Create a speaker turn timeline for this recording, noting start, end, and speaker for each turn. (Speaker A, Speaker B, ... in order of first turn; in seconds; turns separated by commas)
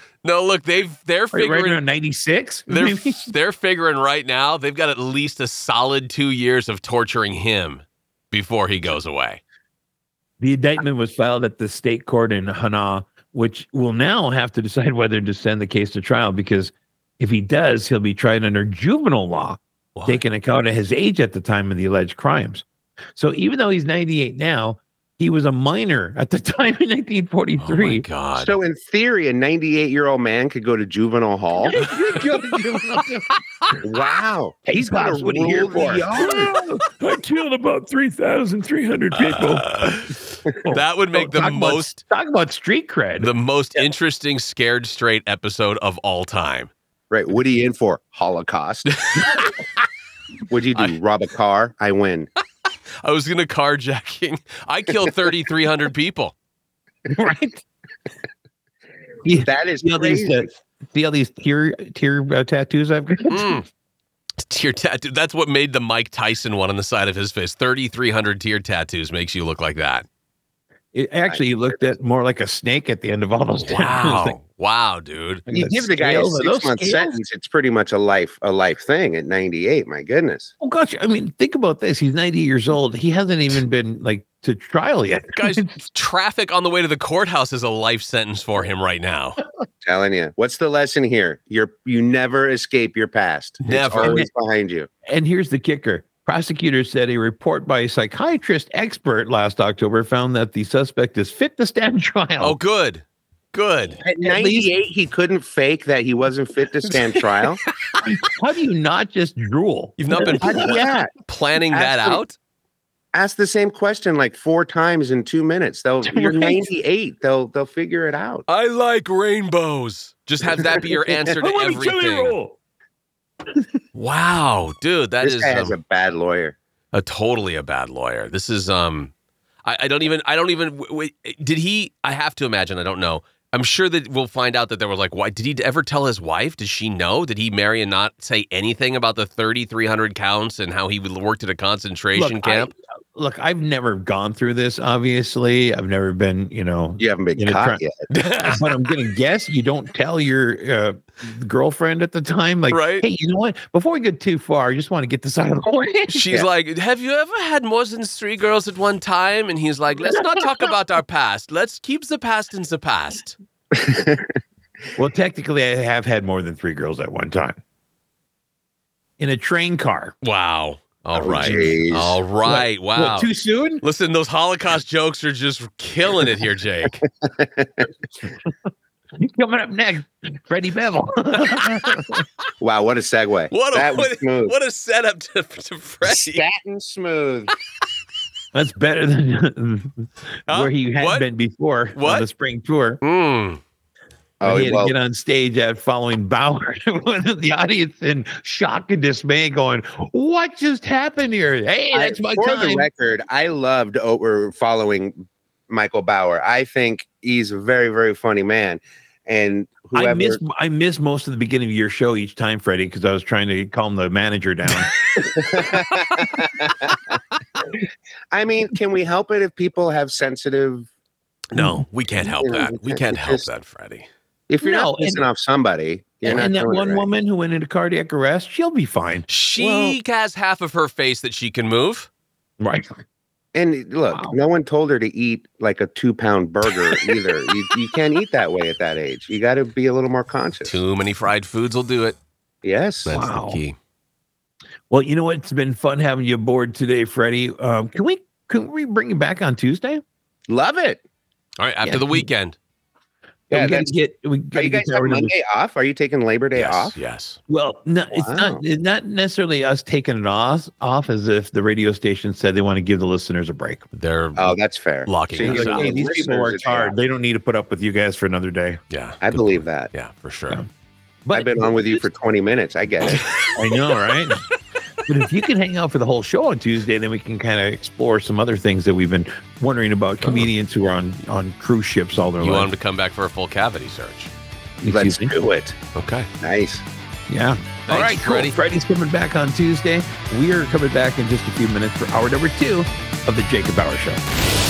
Speaker A: 0.2-1.8, Speaker B: 1.3-3.3, Speaker A: 2.7-9.4, Speaker B: 10.4-28.0, Speaker A: 20.0-20.2, Speaker A: 27.6-28.5, Speaker C: 28.4-31.8, Speaker B: 31.6-33.3, Speaker A: 31.9-32.2, Speaker C: 33.8-36.5, Speaker B: 34.7-39.7, Speaker A: 39.2-42.0, Speaker B: 40.6-43.3, Speaker A: 43.2-46.7, Speaker C: 47.1-48.9, Speaker A: 49.1-49.5, Speaker C: 50.5-52.3, Speaker A: 53.0-56.3, Speaker B: 57.1-57.6, Speaker B: 59.2-63.6, Speaker C: 59.4-60.5, Speaker A: 63.3-63.7, Speaker A: 64.4-70.0, Speaker B: 70.9-74.4, Speaker C: 71.3-71.6, Speaker A: 73.6-75.5, Speaker B: 75.5-77.2, Speaker C: 75.5-80.5, Speaker B: 80.6-85.7, Speaker A: 85.4-89.4, Speaker C: 89.8-94.9, Speaker A: 93.6-94.2, Speaker B: 94.0-94.3, Speaker B: 95.1-102.6, Speaker A: 102.4-104.0, Speaker C: 104.0-107.6, Speaker B: 104.2-104.7, Speaker B: 108.0-110.8, Speaker A: 110.0-112.3, Speaker C: 110.4-111.1, Speaker B: 111.7-112.2, Speaker C: 113.1-118.5, Speaker B: 116.0-116.7, Speaker A: 118.5-122.3, Speaker B: 121.2-122.5, Speaker A: 124.0-125.8, Speaker C: 125.2-126.5, Speaker A: 126.9-129.1, Speaker A: 129.7-142.7, Speaker B: 142.2-156.3, Speaker C: 147.0-147.9, Speaker A: 148.1-148.9, Speaker A: 152.7-153.1, Speaker A: 156.1-163.4, Speaker C: 163.7-164.3, Speaker B: 165.0-167.6, Speaker B: 169.2-170.2, Speaker A: 170.2-173.3, Speaker C: 171.2-172.2, Speaker B: 171.4-171.8, Speaker B: 172.4-173.8, Speaker A: 173.8-177.0, Speaker C: 177.2-177.9, Speaker B: 179.2-182.2, Speaker C: 182.6-184.5, Speaker A: 183.5-186.4, Speaker C: 186.0-187.5, Speaker B: 188.5-193.0, Speaker A: 190.5-191.2, Speaker A: 191.9-192.3, Speaker A: 193.0-193.6, Speaker C: 194.4-195.0, Speaker B: 194.4-202.9, Speaker C: 201.9-210.4, Speaker B: 209.9-214.9, Speaker C: 215.2-217.0, Speaker C: 218.3-220.9, Speaker A: 221.5-224.1, Speaker B: 221.5-221.8, Speaker C: 222.3-223.5, Speaker C: 224.5-227.1, Speaker B: 224.6-225.2, Speaker B: 226.2-229.9, Speaker A: 229.3-232.1, Speaker B: 232.6-233.0, Speaker C: 233.5-240.8, Speaker B: 234.1-234.3, Speaker A: 240.7-242.2, Speaker C: 242.6-243.1, Speaker A: 243.0-243.8, Speaker B: 243.1-243.6, Speaker B: 244.9-250.0, Speaker C: 250.5-251.0, Speaker A: 251.6-252.6, Speaker B: 251.8-252.3, Speaker B: 253.5-255.3, Speaker C: 253.5-253.9, Speaker C: 254.5-257.0, Speaker A: 256.5-257.4, Speaker B: 257.5-263.9, Speaker C: 258.1-258.6, Speaker A: 263.9-266.0, Speaker C: 264.4-266.9, Speaker B: 265.4-268.8, Speaker A: 268.9-270.6, Speaker C: 269.2-269.9, Speaker B: 271.2-272.1, Speaker C: 271.3-273.2, Speaker A: 273.1-273.5, Speaker B: 273.5-274.5, Speaker B: 275.1-282.7, Speaker A: 280.2-280.5, Speaker A: 282.4-284.3, Speaker B: 284.8-285.3, Speaker C: 284.9-285.8, Speaker A: 285.9-286.3, Speaker C: 286.4-286.8, Speaker B: 287.3-294.2, Speaker A: 287.9-288.6